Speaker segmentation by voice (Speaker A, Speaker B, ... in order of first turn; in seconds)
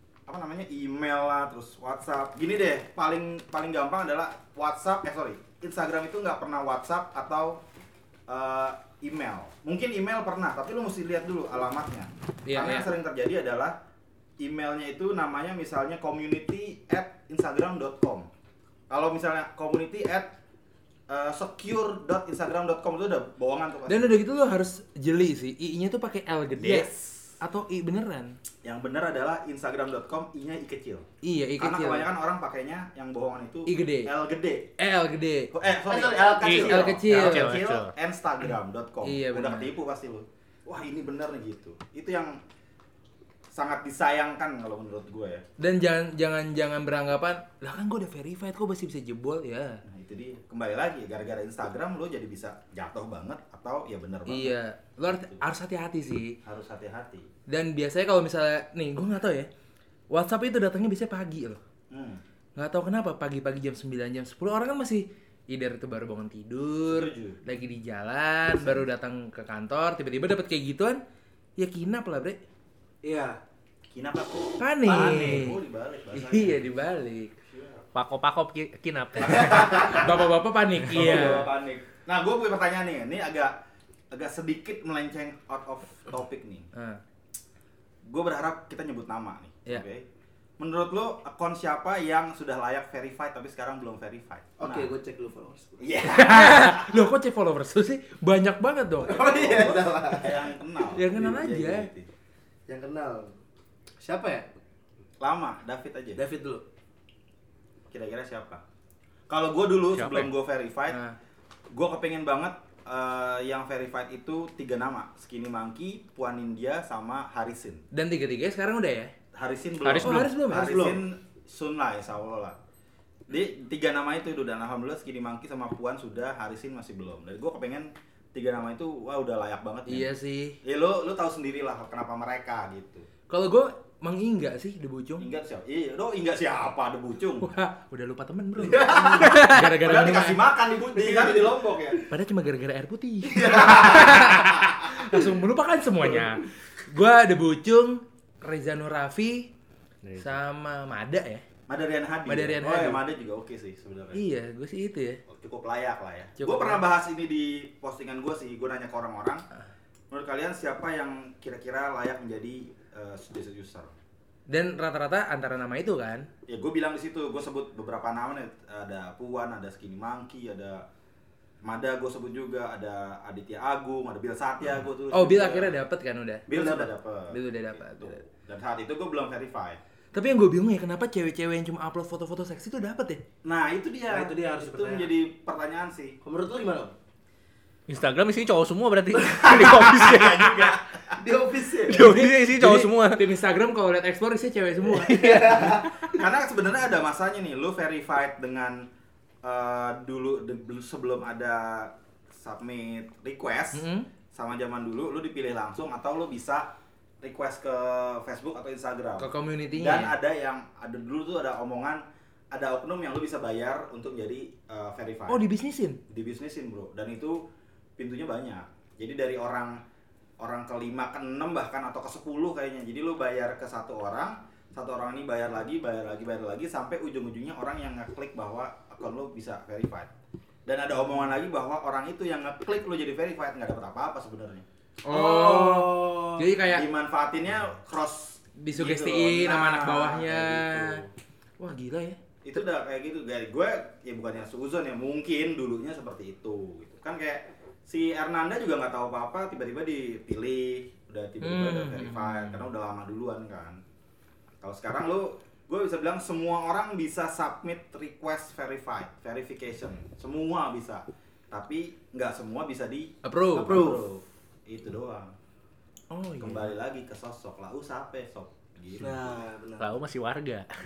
Speaker A: 0.3-7.6, 8.3-13.8, 14.4-18.3, 18.9-20.4, 21.1-24.2, 26.6-27.2, 28.6-31.1, 31.6-34.7, 35.5-42.4, 43.5-45.4, 49.9-55.4, 56.5-57.3, 61.9-62.2, 66.9-67.4, 68.5-68.8, 73.9-76.7, 77.5-77.8, 79.2-80.3, 80.9-83.5, 84.1-86.7, 88.1-90.0, 90.6-94.9, 95.8-96.9, 99.1-102.1, 105.2-106.2, 107.9-108.6, 109.3-111.0, 111.7-117.8, 119.3-122.6, 123.3-130.1, 130.6-133.1, 135.2-137.5, 139.8-142.0, 151.7-154.2, 155.3-159.4, 160.1-163.9, 166.5-170.8, 171.6-175.8, 176.5-179.8, 183.4-186.2, 189.5-191.1, 196.1-198.9, 199.4-206.7, 207.2-215.4, 216.1-217.4, 218.0-219.8, 220.4-230.1, 230.7-234.7, 236.7-241.1, 242.4-253.8, 254.6-265.3, 266.4-269.2
Speaker B: 12.5-12.9, 23.9-28.4, 31.2-32.1, 33.7-34.1, 34.8-35.5, 36.6-37.6, 39.0-39.7, 45.6-49.8, 54.3-56.4, 57.5-59.5, 60.1-61.6, 62.6-71.0, 71.6-72.4, 74.6-75.6, 76.1-77.3, 79.7-81.5, 86.8-87.0, 96.1-99.2, 101.0-101.9, 110.9-111.2, 117.9-119.1, 119.9-121.0, 129.9-130.6, 133.3-135.3, 137.4-140.4, 142.1-149.5, 150.2-151.4, 152.3-153.0, 154.1-155.2, 156.4-156.8, 164.5-166.3, 175.1-178.3, 180.1-183.2, 191.9-195.6, 203.7-204.1, 209.2-210.2, 215.3-216.0, 231.0-231.3, 235.1-236.9, 238.6-241.0, 241.6-242.2, 251.4-252.7, 263.2-263.8, 266.1-266.7
Speaker C: 35.9-37.0, 73.0-73.4, 74.9-75.3, 94.6-95.9, 99.0-100.5, 102.7-103.3, 104.0-104.5, 106.2-106.6, 138.6-139.4, 140.9-141.6, 143.3-144.7, 184.1-185.1, 186.2-186.9, 189.2-189.7, 191.2-192.0, 195.1-195.8, 235.1-236.2, 263.6-264.0, 269.0-269.9
Speaker D: 36.4-37.9, 78.0-79.9, 109.9-110.3, 119.8-120.3, 139.2-139.7, 150.0-150.4, 187.9-190.7, 191.9-193.2, 194.9-195.9, 269.8-270.7